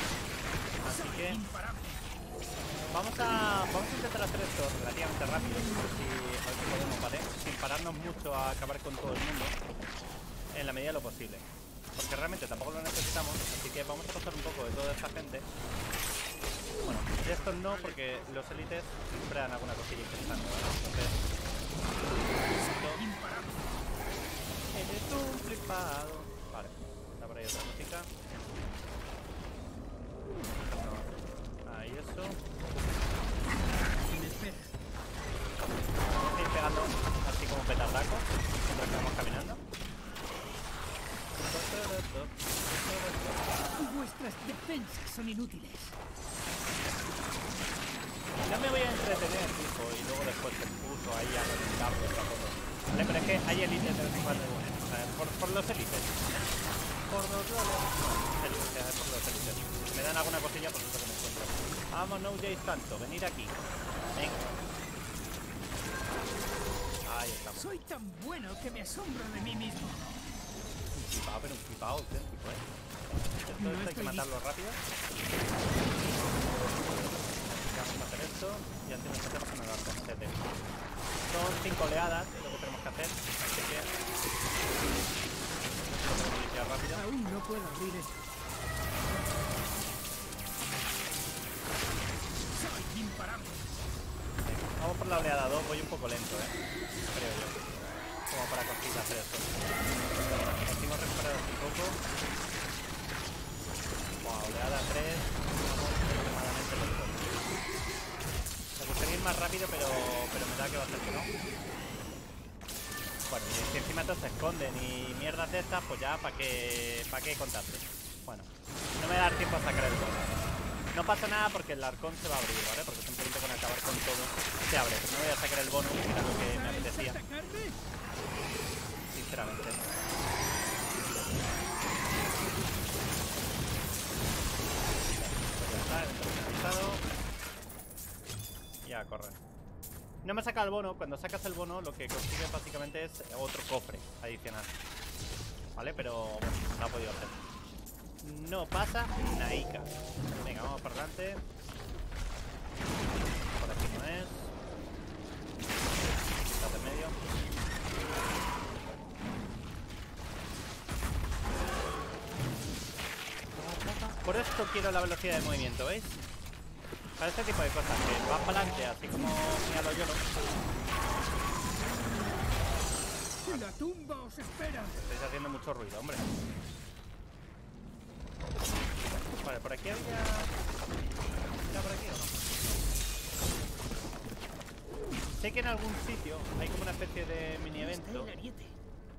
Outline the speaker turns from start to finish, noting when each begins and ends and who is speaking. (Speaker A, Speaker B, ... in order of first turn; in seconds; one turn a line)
Speaker A: 0.8-1.4
Speaker B: 0.8-2.1
Speaker A: 2.9-9.6
Speaker A: 10.5-15.5
Speaker A: 16.8-21.3
Speaker B: 17.1-18.6
Speaker A: 22.1-23.1
Speaker B: 22.3-23.8
Speaker A: 24.7-28.1
Speaker A: 30.7-31.1
Speaker A: 31.6-32.5
Speaker B: 34.0-34.8
Speaker A: 36.0-39.6
Speaker A: 41.4-43.6
Speaker B: 43.8-46.0
Speaker A: 48.4-56.3
Speaker B: 53.3-55.0
Speaker A: 57.1-63.6
Speaker A: 64.2-64.5
Speaker A: 67.0-67.8
Speaker B: 67.5-70.1
Speaker A: 70.9-72.7
Speaker A: 73.4-74.8
Speaker B: 73.6-74.3
Speaker A: 77.0-80.5
Speaker A: 81.3-83.9
Speaker A: 85.8-87.1
Speaker B: 86.9-88.3
Speaker B: 92.5-93.8
Speaker A: 94.5-96.6
Speaker A: 97.1-99.6
Speaker A: 100.3-102.0
Speaker A: 104.2-107.5
Speaker A: 108.8-111.3
Speaker A: 113.3-120.4
Speaker A: 120.9-127.2
Speaker B: 126.2-127.8
Speaker A: 129.1-129.8
Speaker A: 135.1-137.0
Speaker A: 138.8-139.4
Speaker A: 140.2-144.8
Speaker A: 145.8-147.4
Speaker A: 148.2-151.4
Speaker A: 153.5-154.5
Speaker A: 156.4-157.2
Speaker A: 163.5-166.2
Speaker A: 167.2-170.2
Speaker B: 173.4-175.0
Speaker A: 174.9-176.2
Speaker A: 179.4-180.5
Speaker A: 181.6-182.5
Speaker A: 185.3-188.3
Speaker B: 187.8-188.8